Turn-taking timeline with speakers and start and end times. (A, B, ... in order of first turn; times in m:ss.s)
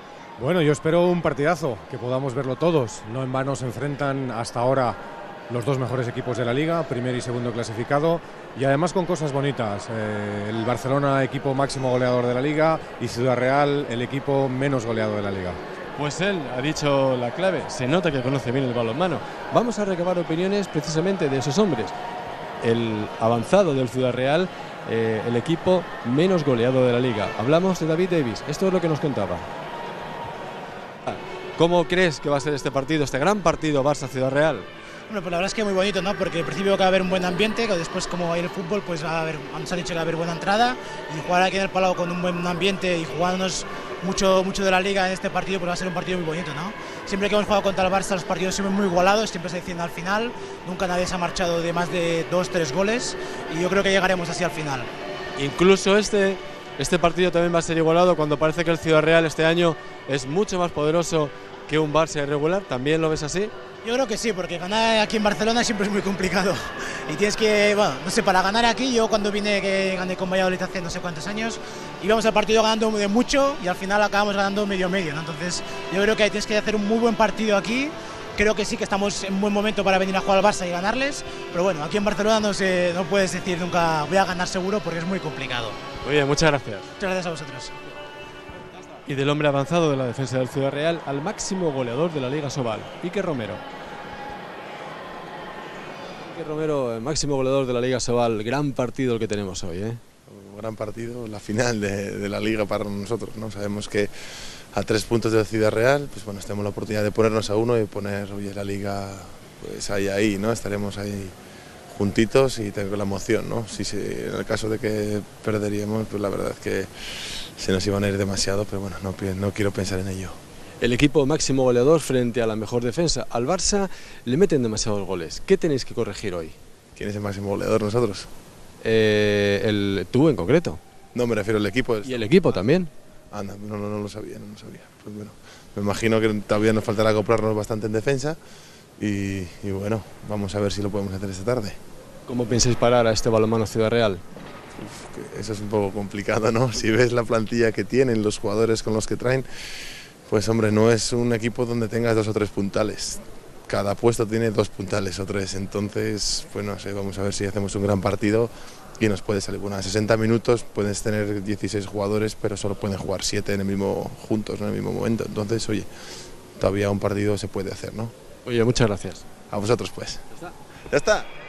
0:00.4-0:05.0 A
0:05.5-0:15.6 A
0:16.0-0:22.0 B
0:22.6-0:29.5 B
0:31.1-0:34.7 B
0:35.1-0:54.9 C
0:55.4-1:03.5 B
1:03.8-1:25.8 C
1:26.0-1:26.9 B
1:27.0-1:27.8 C
1:29.0-1:33.6 B
1:36.2-1:40.0 B
1:40.3-1:51.4 D
1:51.9-2:00.4 D
2:00.8-2:06.6 B
2:07.0-2:08.3 D
2:08.8-2:10.8 B
2:11.1-2:12.2 D
2:12.0-2:12.9 B
2:13.3-2:18.4 D
2:19.0-2:21.8 D
2:22.3-2:24.2 B
2:24.8-2:48.1 D
2:48.4-2:49.3 B
2:49.5-2:50.2 D
2:50.9-2:51.3 D